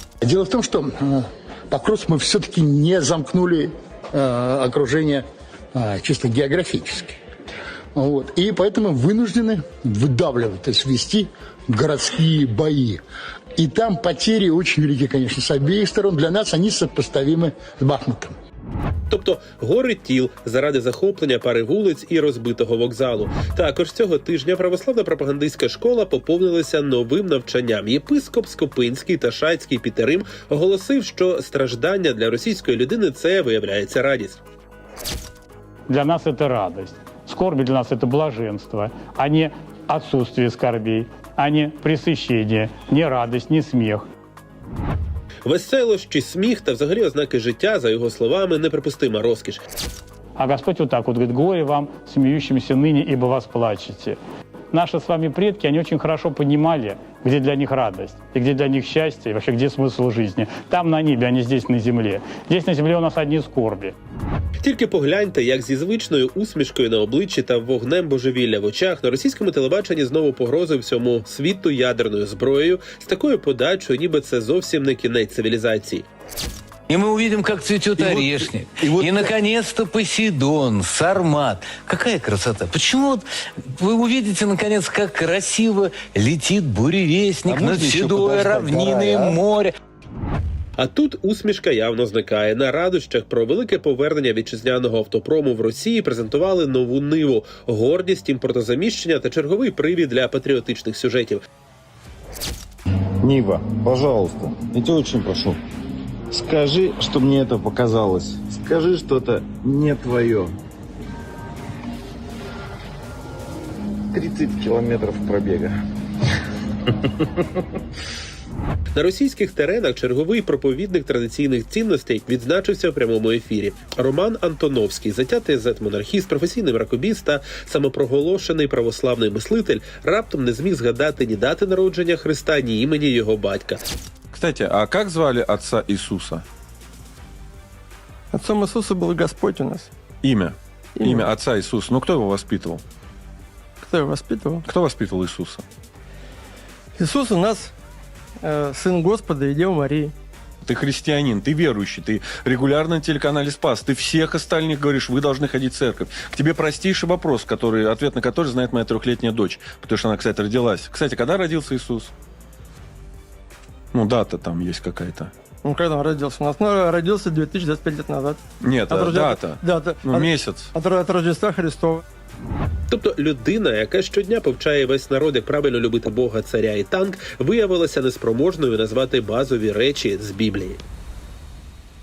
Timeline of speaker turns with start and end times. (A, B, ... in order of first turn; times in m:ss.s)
0:00.2-0:07.1 A
0:08.0-0:13.0 A
0:13.6-0:18.3 A
0:19.1-0:34.4 B
0:35.9-0:44.0 C
0:45.4-0:49.6 B
0:50.4-0:54.2 C
0:54.7-1:03.9 C
1:04.6-1:16.0 B
1:16.9-1:29.7 D
1:18.0-1:19.3 E
1:27.5-1:29.4 E
1:30.8-1:41.4 B
1:43.2-1:45.6 E
1:46.3-1:50.5 E
1:54.1-1:55.8 E
1:59.0-2:13.8 B
2:14.3-2:16.4 F
2:18.3-2:19.9 G
2:20.2-2:22.8 F
2:21.0-2:21.3 G
2:23.8-2:24.6 G
2:24.6-2:25.6 F
2:27.0-2:27.7 G
2:28.4-2:30.1 G
2:30.6-2:42.1 F
2:43.9-2:45.3 F
2:45.6-2:52.0 G
2:48.6-2:50.7 F
2:52.9-3:00.8 B